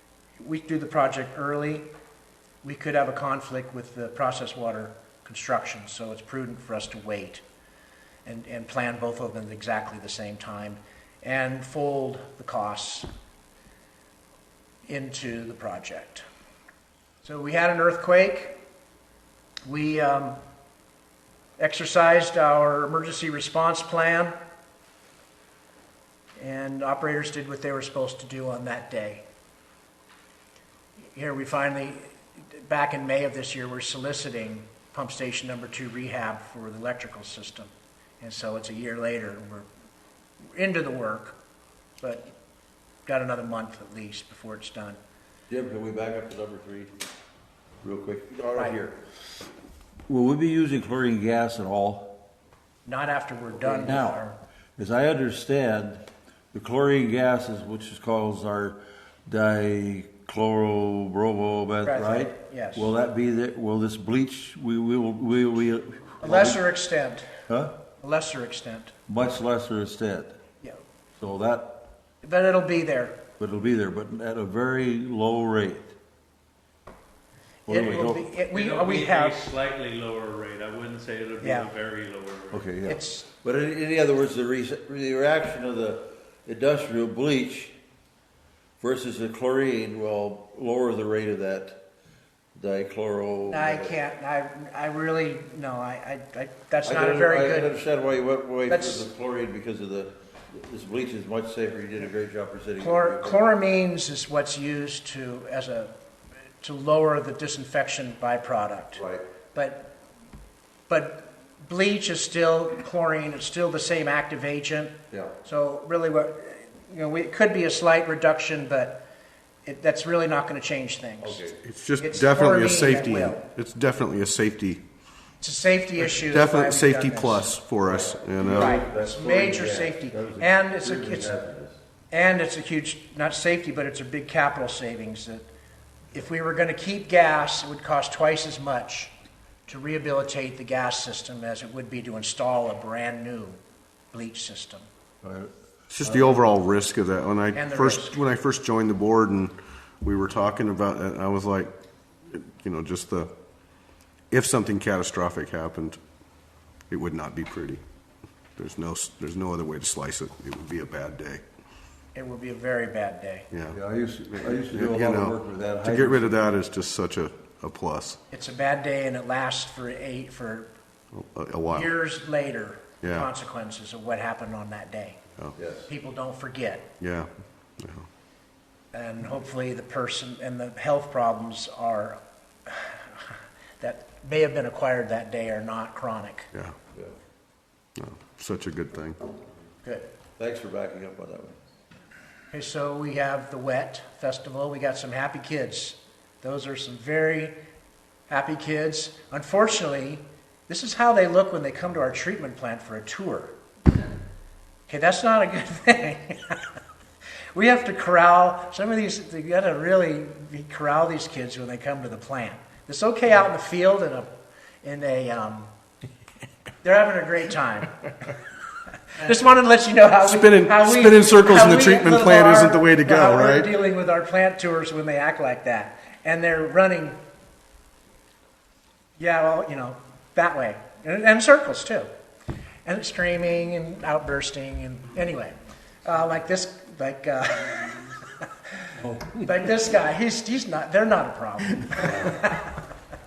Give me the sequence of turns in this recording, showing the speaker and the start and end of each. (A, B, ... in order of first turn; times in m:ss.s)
0:00.4-0:01.9 A
0:02.6-0:07.4 A
0:08.2-0:13.1 A
0:14.8-0:16.2 A
0:17.2-0:18.6 A
0:19.7-0:20.4 A
0:21.6-0:24.3 A
0:26.4-0:29.2 A
0:31.1-0:39.7 A
0:40.5-0:41.4 A
0:42.0-0:42.3 A
0:43.0-0:45.0 A
0:45.5-0:47.0 B
0:47.8-0:49.0 B
0:50.1-0:52.1 B
0:52.8-0:54.4 A
0:53.5-0:54.2 B
0:54.8-1:06.6 B
1:01.8-1:02.9 A
1:06.2-1:07.2 A
1:07.5-1:07.7 B
1:08.0-1:08.9 A
1:09.1-1:10.4 B
1:11.2-1:11.8 B
1:12.2-1:13.2 A
1:13.4-1:15.9 B
1:17.7-1:18.3 B
1:17.7-1:19.5 A
1:18.5-1:22.6 C
1:21.4-1:21.7 A
1:22.5-1:27.7 B
1:22.8-1:23.2 A
1:28.8-1:31.8 B
1:32.5-1:33.9 B
1:33.5-1:37.7 A
1:36.8-1:43.4 B
1:38.7-1:39.0 A
1:42.8-1:45.9 A
1:46.6-1:49.0 A
1:49.0-1:49.2 B
1:49.5-1:49.9 A
1:50.9-1:59.0 A
1:59.6-2:01.4 A
2:01.2-2:01.6 B
2:01.6-2:04.8 D
2:02.0-2:03.4 A
2:05.4-2:07.5 A
2:06.0-2:08.8 D
2:07.9-2:11.8 B
2:08.5-2:11.4 A
2:12.1-2:15.4 A
2:16.1-2:19.1 A
2:19.7-2:23.6 A
2:24.1-2:24.9 A
2:25.2-2:25.5 B
2:25.9-2:31.7 D
2:26.0-2:26.4 B
2:27.5-2:28.2 A
2:32.3-2:33.3 D
2:34.3-2:36.0 D
2:36.9-2:37.8 D
2:38.6-2:41.4 D
2:42.1-2:43.5 A
2:43.5-2:43.8 D
2:43.7-2:46.4 B
2:44.4-2:48.2 D
2:48.3-2:50.7 A
2:51.1-2:51.9 D
2:51.7-2:55.2 A
2:53.0-2:53.3 D
2:55.6-2:55.9 B
2:55.9-2:56.9 A
2:57.0-2:58.1 D
2:58.9-3:06.5 A
3:08.0-3:09.2 D
3:10.4-3:11.6 B
3:12.5-3:17.6 A
3:18.3-3:23.6 A
3:24.9-3:26.6 A
3:27.5-3:34.3 A
3:34.8-3:35.7 A
3:36.8-3:38.1 A
3:39.1-3:47.2 A
3:40.2-3:43.7 D
3:49.2-3:52.1 A
3:52.8-4:02.8 A